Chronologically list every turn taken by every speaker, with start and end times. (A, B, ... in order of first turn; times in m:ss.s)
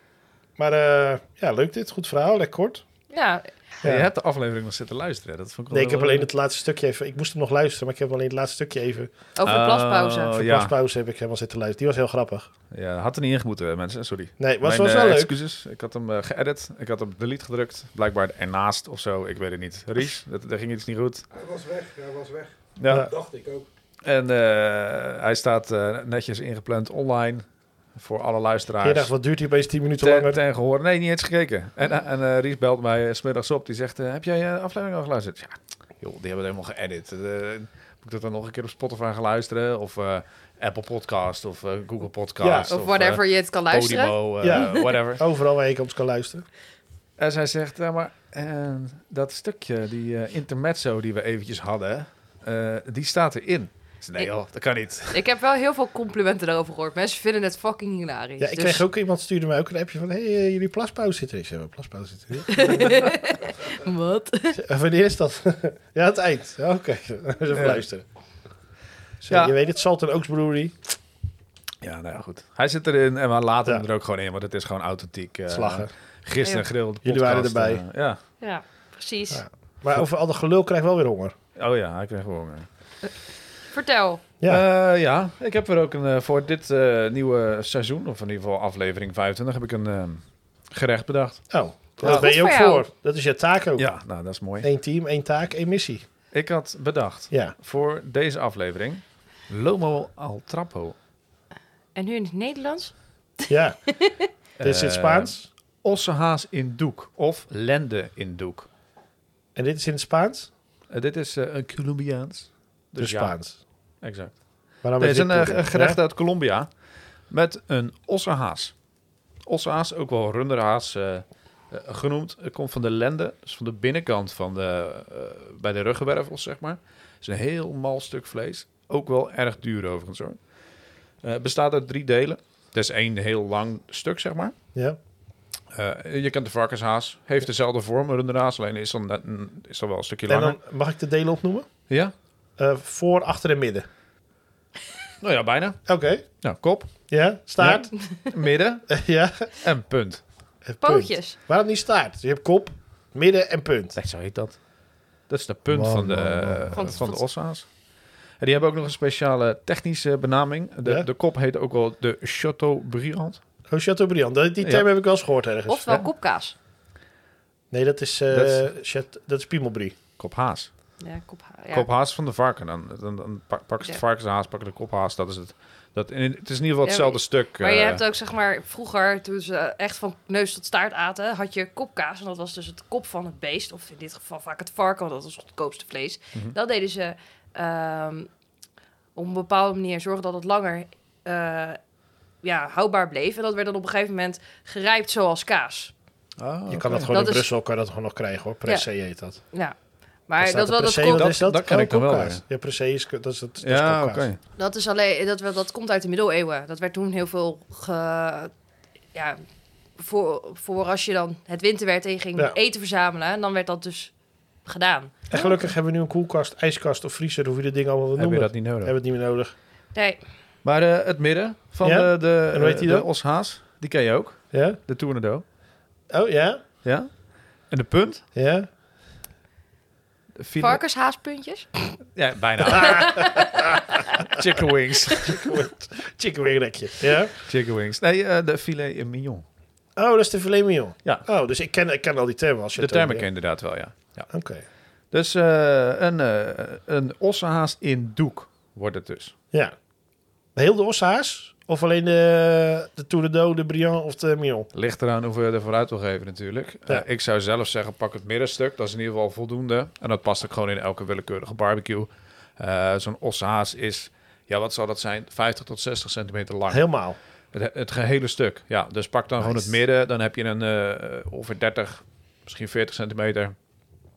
0:00.6-0:02.8 A
0:03.1-0:03.5 B
0:03.8-0:04.1 A
0:03.8-0:06.3 C
0:05.7-0:09.1 A
0:09.4-0:10.4 B
0:09.4-0:10.8 C
0:10.3-0:12.5 A
0:12.7-0:21.2 C
0:14.4-0:15.3 A
0:21.3-0:23.7 D
0:22.8-0:23.1 C
0:24.0-0:27.4 C
0:28.0-0:29.1 C
0:28.8-0:30.4 A
0:30.0-0:45.2 C
0:42.4-0:42.7 A
0:42.7-0:44.9 B
0:44.4-0:46.4 A
0:47.2-0:55.2 C
0:55.1-0:58.8 B
0:58.4-1:03.1 A
1:02.5-1:04.6 B
1:04.5-1:08.0 A
1:07.5-1:07.8 C
1:09.2-1:10.9 A
1:09.3-1:09.5 C
1:11.8-1:18.2 C
1:15.5-1:15.9 A
1:17.0-1:17.8 A
1:18.4-1:19.4 B
1:19.3-1:21.4 A
1:21.6-1:22.7 C
1:23.7-1:24.2 B
1:24.5-1:31.4 C
1:31.5-1:33.9 A
1:32.0-1:32.3 C
1:32.0-1:32.9 B
1:33.8-1:34.7 C
1:34.6-1:36.0 A
1:36.3-1:41.0 C
1:42.0-1:42.9 B
1:43.5-1:43.8 A
1:44.0-1:44.3 B
1:44.6-1:48.7 C
1:44.6-1:45.5 A
1:49.5-1:50.5 A
1:50.9-1:53.3 C
1:53.0-1:53.6 A
1:54.0-1:54.4 C
1:54.8-1:56.0 A
1:55.0-1:56.7 C
1:57.3-1:58.7 C
1:59.5-2:10.4 C
2:11.2-2:14.5 C
2:15.7-2:20.6 C
2:20.3-2:21.7 A
2:22.6-2:23.9 A
2:25.2-2:26.9 C
2:25.9-2:26.2 A
2:27.1-2:27.9 A
2:27.6-2:28.9 C
2:28.9-2:29.5 A
2:29.6-2:30.2 C
2:30.6-2:34.0 A
2:30.8-2:31.4 B
2:34.0-2:34.6 C
2:35.3-2:37.7 C
2:35.7-2:36.9 A
2:36.7-2:37.2 B
2:38.4-2:43.4 C
2:43.7-2:45.9 A
2:45.7-2:46.5 B
2:47.7-2:50.0 A
2:48.3-2:48.7 C
2:50.2-2:50.7 C
2:51.0-2:51.9 B
2:51.7-2:58.0 C
2:56.8-3:08.3 B
3:09.1-3:11.8 B
3:12.4-3:15.9 B
3:16.4-3:17.1 C
3:16.7-3:19.4 A
3:17.1-3:17.5 B
3:20.3-3:21.3 B
3:20.4-3:24.3 A
3:21.1-3:22.4 C
3:23.6-3:24.4 C
3:24.6-3:28.5 B
3:29.1-3:29.4 B
3:30.0-3:34.1 B
3:34.6-3:35.5 B
3:35.3-3:39.5 A
3:38.2-3:38.9 C
3:39.9-3:40.2 B
3:40.6-3:45.4 C
3:41.8-3:43.1 A
3:44.5-3:44.8 A
3:46.1-3:46.6 A
3:46.8-3:47.1 C
3:47.7-3:48.2 C
3:48.4-3:48.7 A
3:50.4-3:50.8 C
3:50.6-3:52.0 B
3:52.1-3:53.5 C
3:52.7-3:53.7 A
3:52.7-3:54.1 B
3:54.1-3:55.6 C
3:55.2-3:57.3 A
3:57.4-3:59.4 C
4:00.0-4:03.3 A
4:02.8-4:04.3 C
4:04.3-4:04.6 A
4:05.1-4:09.3 C
4:10.6-4:14.7 A
4:14.7-4:26.8 C
4:26.7-4:27.2 A
4:27.5-4:33.5 C
4:29.4-4:29.7 A